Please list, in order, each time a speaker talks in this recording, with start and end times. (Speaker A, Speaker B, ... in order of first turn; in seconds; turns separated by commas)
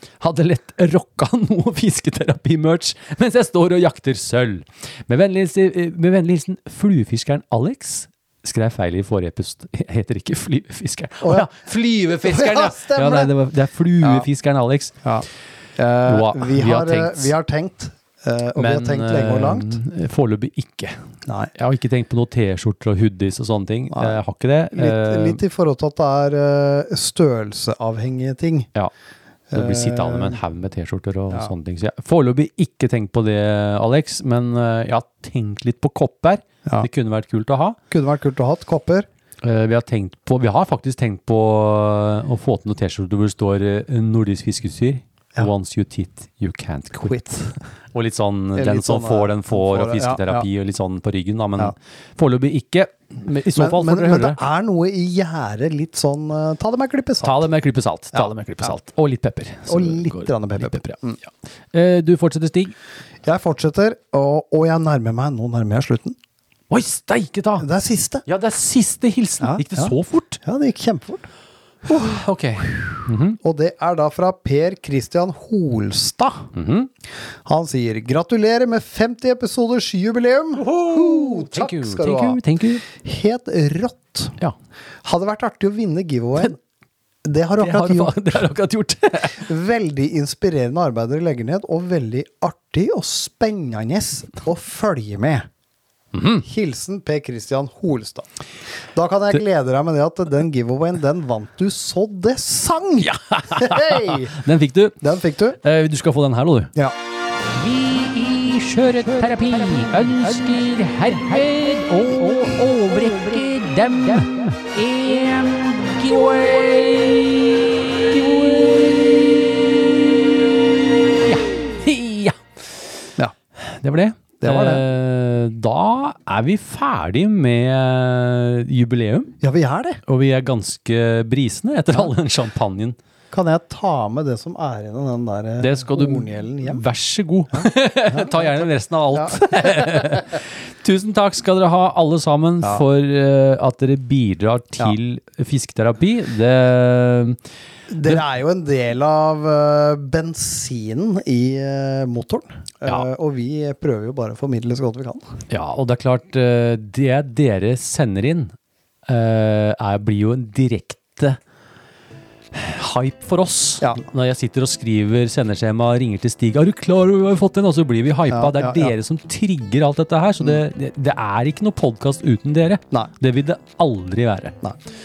Speaker A: 0.2-15.0, Speaker B: 11.2-11.5, Speaker B: 12.1-13.3, Speaker B: 14.0-14.3, Speaker B: 15.0-19.8, Speaker A: 16.0-17.3, Speaker A: 18.6-21.0, Speaker B: 21.2-21.5, Speaker A: 21.5-25.4, Speaker B: 23.9-24.2, Speaker B: 24.7-28.7, Speaker B: 29.5-30.4, Speaker A: 29.5-37.8, Speaker B: 37.9-39.1, Speaker A: 39.4-47.2, Speaker B: 47.0-47.6, Speaker A: 47.9-54.4, Speaker B: 48.5-50.5, Speaker B: 53.5-57.5, Speaker A: 57.2-61.0, Speaker B: 58.1-58.7, Speaker B: 59.7-61.2, Speaker A: 61.7-62.7, Speaker B: 63.2-66.2, Speaker A: 66.7-67.7, Speaker B: 67.6-68.2, Speaker A: 68.2-70.4, Speaker B: 69.4-71.2, Speaker A: 71.8-73.4, Speaker B: 71.8-76.5, Speaker A: 76.5-76.9, Speaker B: 77.4-84.4, Speaker A: 80.5-82.8, Speaker B: 85.0-86.6, Speaker B: 87.2-88.4, Speaker A: 87.6-89.4, Speaker B: 89.2-95.5, Speaker A: 96.1-96.5, Speaker B: 96.4-98.3, Speaker B: 98.9-104.4, Speaker A: 103.0-105.0, Speaker B: 105.0-105.6, Speaker A: 105.6-106.7, Speaker A: 107.5-119.5, Speaker A: 121.2-122.4, Speaker A: 123.6-129.3, Speaker B: 124.4-124.8, Speaker B: 129.4-130.0, Speaker A: 130.1-133.0, Speaker B: 133.3-136.8, Speaker A: 135.6-147.4, Speaker B: 137.5-140.2, Speaker B: 147.9-155.3, Speaker A: 155.5-158.6, Speaker A: 159.1-161.4, Speaker A: 162.5-174.6, Speaker B: 168.3-168.9